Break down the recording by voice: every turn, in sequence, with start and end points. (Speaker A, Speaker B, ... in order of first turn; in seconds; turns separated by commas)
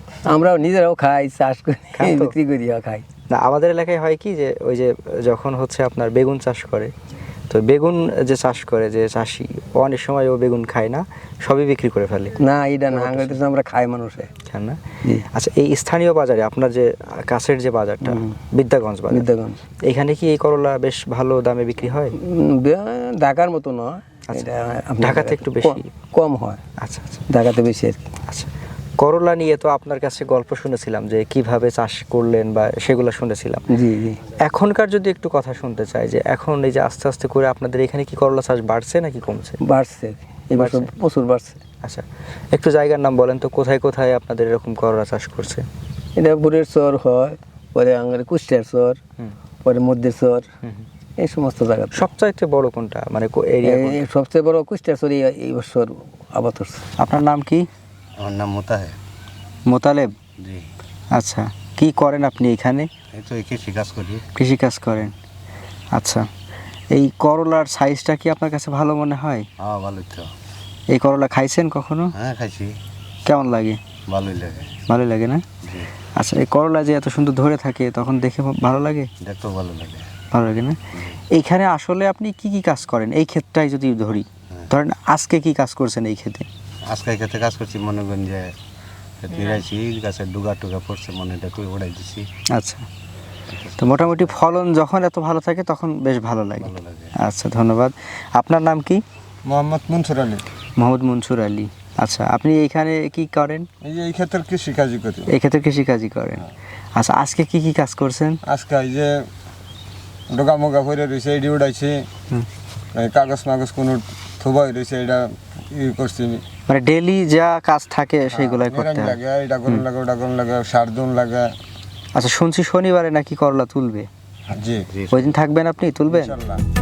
Speaker A: 0.3-3.0, Speaker B: 1.9-2.3, Speaker B: 3.3-6.9, Speaker B: 7.5-12.3, Speaker A: 12.4-14.3, Speaker B: 12.9-13.4, Speaker B: 14.4-14.8, Speaker B: 15.3-19.3, Speaker A: 19.1-19.6, Speaker B: 19.8-22.1, Speaker A: 22.3-26.6, Speaker B: 25.0-25.9, Speaker B: 26.8-27.2, Speaker A: 27.3-28.0, Speaker B: 28.3-33.6, Speaker A: 33.8-34.2, Speaker B: 34.3-39.6, Speaker A: 39.6-40.2, Speaker B: 40.5-40.9, Speaker A: 41.0-41.6, Speaker B: 41.8-45.6, Speaker A: 46.2-49.0, Speaker A: 49.6-50.4, Speaker A: 51.2-52.0, Speaker B: 51.9-54.0, Speaker A: 53.7-56.8, Speaker B: 57.0-57.7, Speaker C: 58.2-59.0, Speaker B: 59.7-60.1, Speaker C: 60.4-60.7, Speaker B: 61.1-62.9, Speaker C: 63.1-64.2, Speaker B: 64.3-65.1, Speaker B: 65.9-66.3, Speaker B: 66.9-69.5, Speaker C: 69.6-70.3, Speaker B: 70.9-72.1, Speaker C: 72.1-72.8, Speaker B: 73.2-73.8, Speaker C: 73.9-74.8, Speaker B: 74.9-75.4, Speaker C: 75.6-75.9, Speaker B: 76.1-79.1, Speaker C: 79.2-80.1, Speaker B: 80.3-86.5, Speaker C: 86.9-88.5, Speaker C: 89.2-92.3, Speaker B: 92.5-92.8, Speaker C: 93.5-94.3, Speaker B: 93.8-99.0, Speaker C: 96.6-97.1, Speaker D: 99.5-100.4, Speaker B: 100.8-103.7, Speaker D: 103.8-105.3, Speaker B: 105.3-106.4, Speaker B: 106.9-108.4, Speaker D: 108.4-109.3, Speaker D: 110.3-112.1, Speaker D: 112.9-116.4, Speaker B: 116.7-119.9, Speaker D: 118.3-121.6, Speaker B: 122.1-124.1, Speaker D: 124.5-124.9, Speaker C: 124.9-125.3, Speaker B: 125.1-126.3, Speaker D: 126.1-126.6